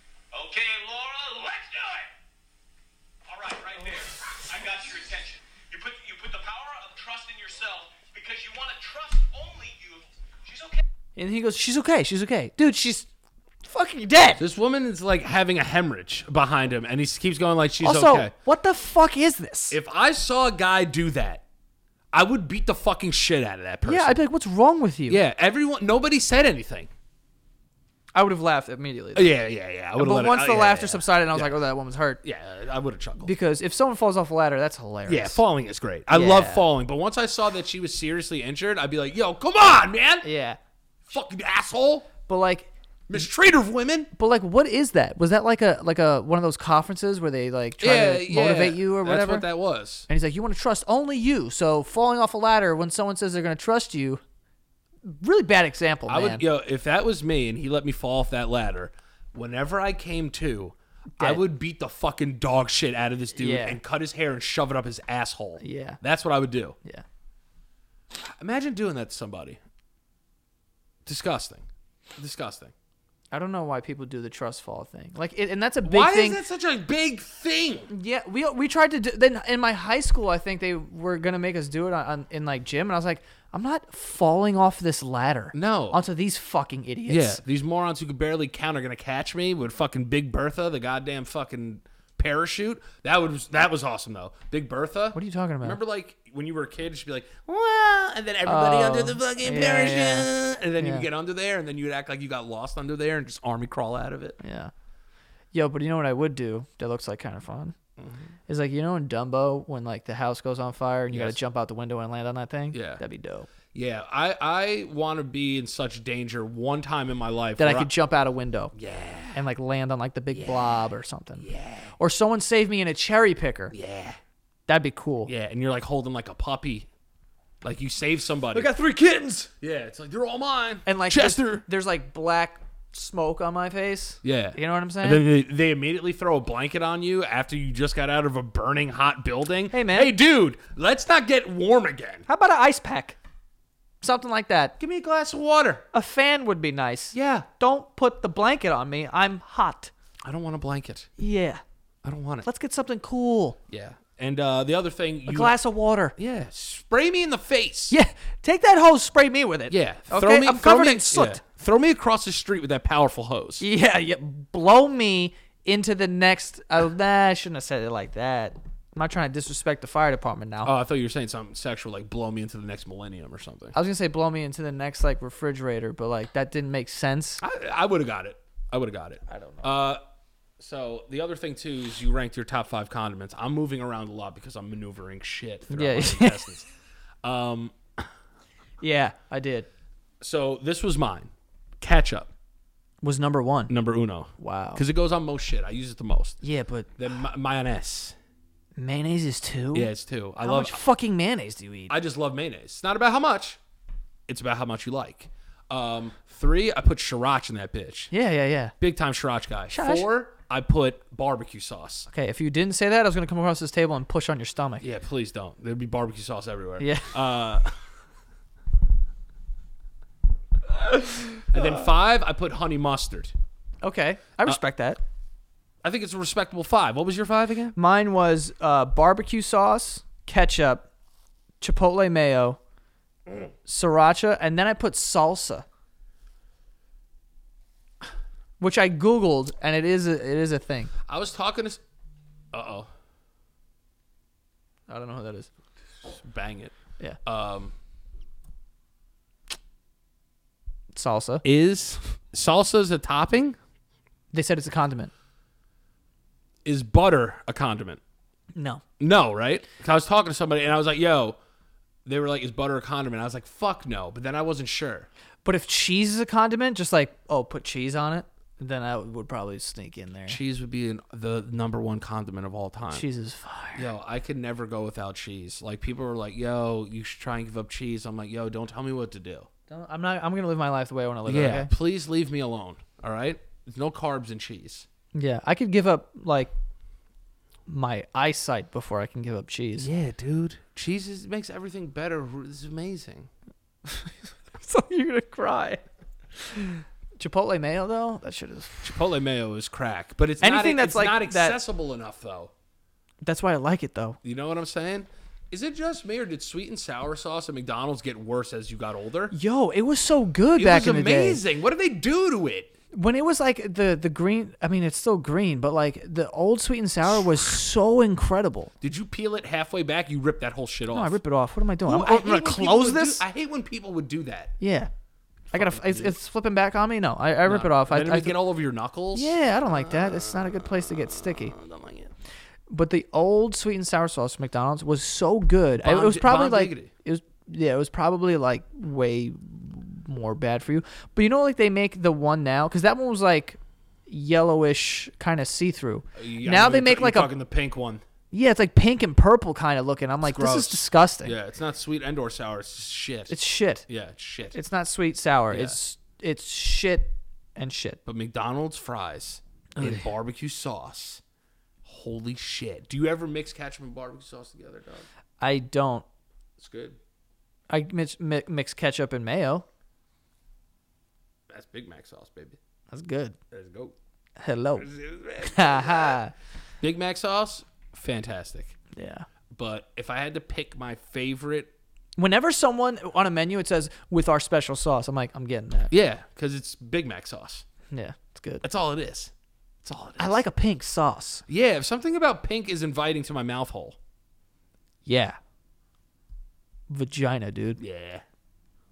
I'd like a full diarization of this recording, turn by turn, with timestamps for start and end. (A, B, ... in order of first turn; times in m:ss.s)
0:00.3-0:02.1 A
0:03.3-0:10.8 A
0:11.2-0:13.1 B
0:13.6-0:14.4 B
0:14.4-0:18.3 C
0:17.8-0:19.8 B
0:19.7-0:21.4 C
0:22.1-0:24.2 C
0:23.8-0:25.2 B
0:25.1-0:26.9 C
0:28.1-0:29.3 B
0:29.2-0:31.6 C
0:30.0-0:32.2 B
0:32.2-0:33.3 C
0:33.2-0:35.4 B
0:35.1-0:40.3 C
0:36.1-0:36.6 B
0:40.2-0:40.6 B
0:41.1-0:42.1 C
0:42.3-0:42.7 B
0:43.1-0:44.1 C
0:44.2-0:49.5 B
0:47.8-0:50.1 C
0:50.1-0:54.2 B
0:55.0-0:56.4 B
0:56.1-1:06.8 C
1:03.4-1:03.8 B
1:05.6-1:06.0 B
1:08.2-1:09.6 C
1:11.1-1:12.7 C
1:13.3-1:16.4 B
1:15.8-1:17.9 C
1:17.9-1:27.4 B
1:25.5-1:26.0 C
1:27.1-1:44.4 C
1:35.1-1:35.8 B
1:38.4-1:41.1 B
1:44.4-1:44.7 B
1:45.5-1:47.8 B
1:48.5-1:53.5 B
1:51.1-1:51.4 C
1:52.7-1:53.0 C
1:53.7-1:57.9 C
1:57.6-1:58.7 B
1:58.7-1:59.4 C
1:59.3-2:01.5 B
2:00.3-2:00.9 C
2:01.4-2:01.9 C
2:02.0-2:03.7 B
2:03.7-2:04.2 C
2:04.7-2:05.3 B
2:05.3-2:06.9 C
2:07.6-2:08.7 C
2:08.5-2:09.5 B
2:09.6-2:11.6 C
2:10.9-2:15.2 B
2:14.2-2:22.3 C
2:19.7-2:20.1 B
2:22.3-2:23.2 B
2:24.0-2:24.8 B
2:24.8-2:25.8 C
2:25.9-2:29.9 B
2:27.1-2:27.5 C
2:30.2-2:31.1 C
2:31.2-2:31.6 B
2:32.0-2:32.5 C
2:32.4-2:33.6 B
2:33.7-2:35.5 C
2:35.3-2:36.2 B
2:36.2-2:38.0 C
2:37.9-2:41.4 B
2:39.7-2:43.6 C
2:43.6-2:50.7 B
2:50.6-2:53.8 C
2:53.7-2:57.4 B
2:57.4-3:00.0 C
2:59.3-2:59.7 B
3:00.6-3:06.7 C
3:05.7-3:06.5 B
3:07.2-3:08.1 C
3:08.8-3:09.7 B
3:10.2-3:12.3 C
3:13.0-3:13.7 B
3:13.7-3:16.4 C
3:14.4-3:14.8 B
3:16.4-3:16.9 B
3:17.0-3:18.2 C
3:18.8-3:22.0 B
3:19.7-3:20.8 C
3:21.9-3:23.6 C
3:24.3-3:28.1 C
3:28.1-3:28.7 B
3:28.8-3:32.1 C
3:29.7-3:30.1 B
3:32.1-3:34.8 B
3:34.8-3:37.8 C
3:36.8-3:37.1 B
3:40.8-3:41.6 B
3:41.5-3:43.3 C
3:43.8-3:45.0 B
3:45.8-3:47.8 C
3:47.8-3:50.9 B
3:51.6-3:52.6 B
3:53.7-3:55.6 B
3:58.6-4:00.9 B
4:01.1-4:01.8 C
4:02.5-4:02.9 C
4:04.9-4:05.5 B
4:06.0-4:07.7 C
4:10.9-4:11.4 B
4:11.4-4:13.6 C
4:14.3-4:15.1 B
4:16.6-4:18.0 C
4:18.6-4:18.8 B
4:19.0-4:21.4 C
4:22.1-4:25.1 C
4:25.4-4:30.4 B
4:30.3-4:33.0 C
4:32.9-4:33.9 B
4:33.8-4:39.5 C
4:39.7-4:41.7 B
4:41.3-4:44.9 C
4:45.1-4:46.5 B
4:47.7-4:49.9 B
4:49.8-4:53.3 C
4:53.9-4:55.8 B
4:56.4-4:59.0 B
4:58.8-5:02.5 C
5:00.4-5:01.6 B
5:03.2-5:04.2 B
5:04.2-5:09.3 C
5:09.3-5:11.4 B
5:10.6-5:12.7 C
5:12.9-5:18.7 B
5:18.8-5:21.2 C
5:20.9-5:23.2 B
5:21.8-5:24.5 C
5:24.6-5:24.9 B
5:25.5-5:26.2 C
5:25.5-5:28.4 B
5:27.4-5:32.1 C
5:29.2-5:31.6 B
5:32.7-5:47.3 B
5:35.8-5:36.9 C
5:46.2-5:48.0 C
5:48.3-5:51.4 B
5:50.2-5:53.3 C
5:53.3-5:53.9 B
5:53.9-5:54.6 C
5:54.5-5:58.0 B
5:55.5-5:55.8 C
5:58.1-6:01.2 C
5:59.8-6:00.0 B
6:01.8-6:05.1 C
6:05.4-6:06.0 B
6:06.6-6:07.0 C
6:07.7-6:09.6 B
6:11.5-6:12.6 C
6:12.9-6:13.4 B
6:13.5-6:14.0 C
6:14.4-6:14.9 B
6:14.8-6:16.2 C
6:15.4-6:16.3 B
6:16.8-6:18.8 C
6:18.9-6:19.3 B
6:19.5-6:21.7 C
6:22.2-6:25.9 B
6:25.9-6:27.6 C
6:27.9-6:28.6 B
6:28.6-6:29.3 C
6:29.8-6:30.4 C
6:30.2-6:31.4 B
6:31.5-6:34.0 C
6:35.1-6:35.4 B
6:36.9-6:37.8 B
6:37.8-6:38.2 C